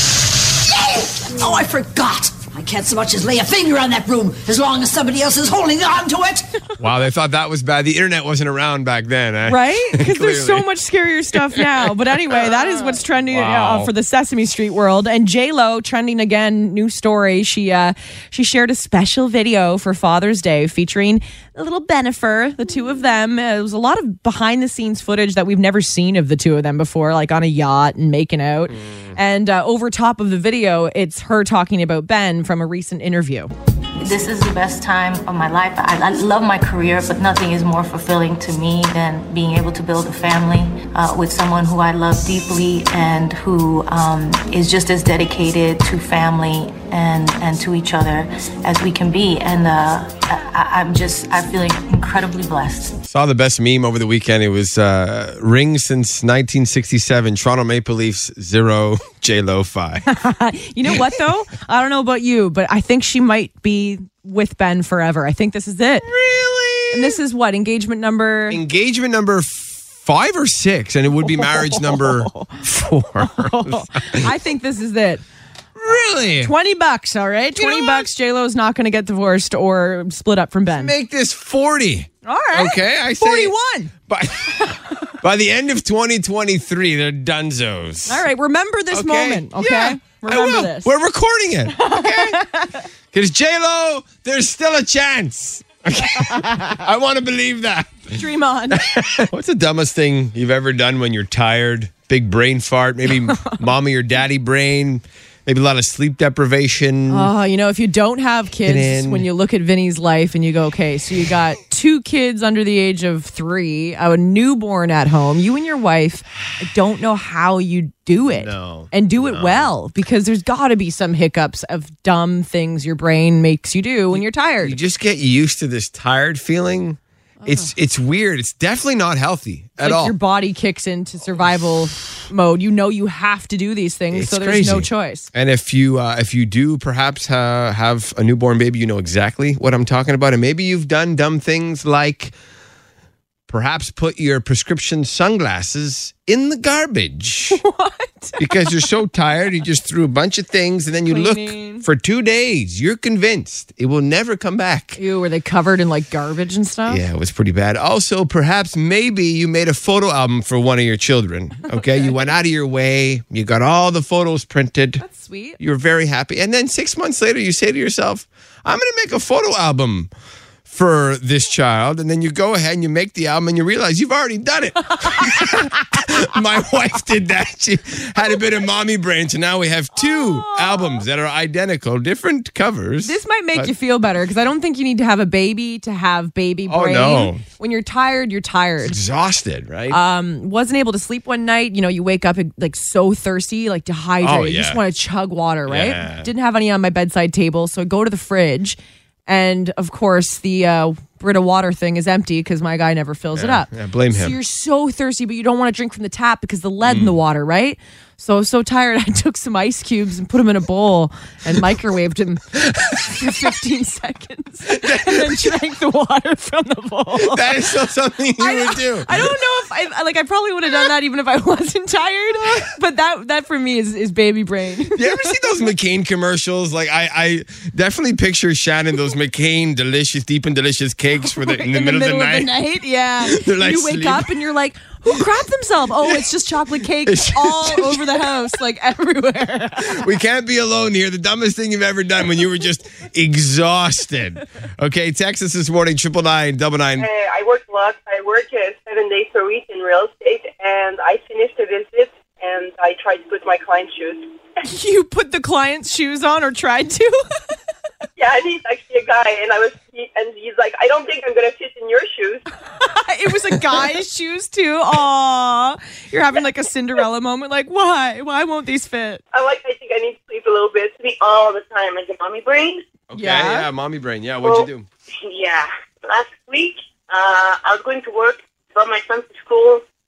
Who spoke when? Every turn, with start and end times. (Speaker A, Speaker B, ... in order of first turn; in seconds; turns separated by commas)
Speaker A: 0.7-6.5, Speaker B: 6.8-10.7, Speaker C: 9.4-33.5, Speaker B: 11.6-11.9, Speaker B: 13.3-13.9, Speaker B: 28.7-29.2, Speaker D: 34.0-53.0, Speaker B: 53.0-60.0, Speaker C: 60.0-66.1, Speaker B: 66.0-67.2, Speaker C: 66.9-68.6, Speaker B: 68.5-74.3, Speaker C: 71.3-72.6, Speaker C: 73.2-75.2, Speaker B: 75.8-76.5, Speaker C: 76.4-80.9, Speaker B: 77.5-78.1, Speaker B: 80.7-83.5, Speaker C: 82.2-83.9, Speaker B: 84.1-88.2, Speaker C: 88.1-90.9, Speaker B: 88.9-92.4, Speaker C: 91.7-92.8, Speaker B: 93.1-107.3, Speaker C: 98.1-98.8, Speaker C: 107.1-124.8, Speaker B: 108.6-109.3, Speaker B: 118.3-119.7, Speaker B: 124.1-130.2, Speaker C: 127.4-127.7, Speaker C: 129.8-135.3, Speaker B: 134.1-142.3, Speaker B: 143.5-147.6, Speaker C: 147.5-148.5, Speaker B: 148.4-155.0, Speaker C: 151.1-151.8, Speaker C: 154.9-157.0, Speaker B: 156.9-165.0, Speaker C: 165.0-165.6, Speaker B: 165.6-170.1, Speaker B: 170.7-183.7, Speaker C: 180.0-181.0, Speaker C: 183.0-189.0, Speaker B: 186.7-187.4, Speaker B: 188.8-190.0, Speaker C: 189.9-217.7, Speaker B: 194.2-194.8, Speaker B: 195.7-196.3, Speaker B: 203.3-204.4, Speaker B: 206.8-207.2, Speaker B: 214.8-215.5, Speaker B: 217.1-219.3, Speaker C: 218.4-225.3, Speaker B: 224.9-232.5, Speaker C: 231.3-240.0, Speaker B: 233.2-234.3, Speaker B: 237.0-238.4, Speaker B: 239.8-247.1, Speaker E: 247.0-254.3, Speaker C: 254.6-257.2, Speaker E: 258.1-262.4, Speaker C: 262.8-269.2, Speaker E: 269.3-272.8, Speaker B: 273.1-274.9, Speaker C: 273.1-273.7, Speaker E: 274.4-274.7, Speaker E: 275.2-279.8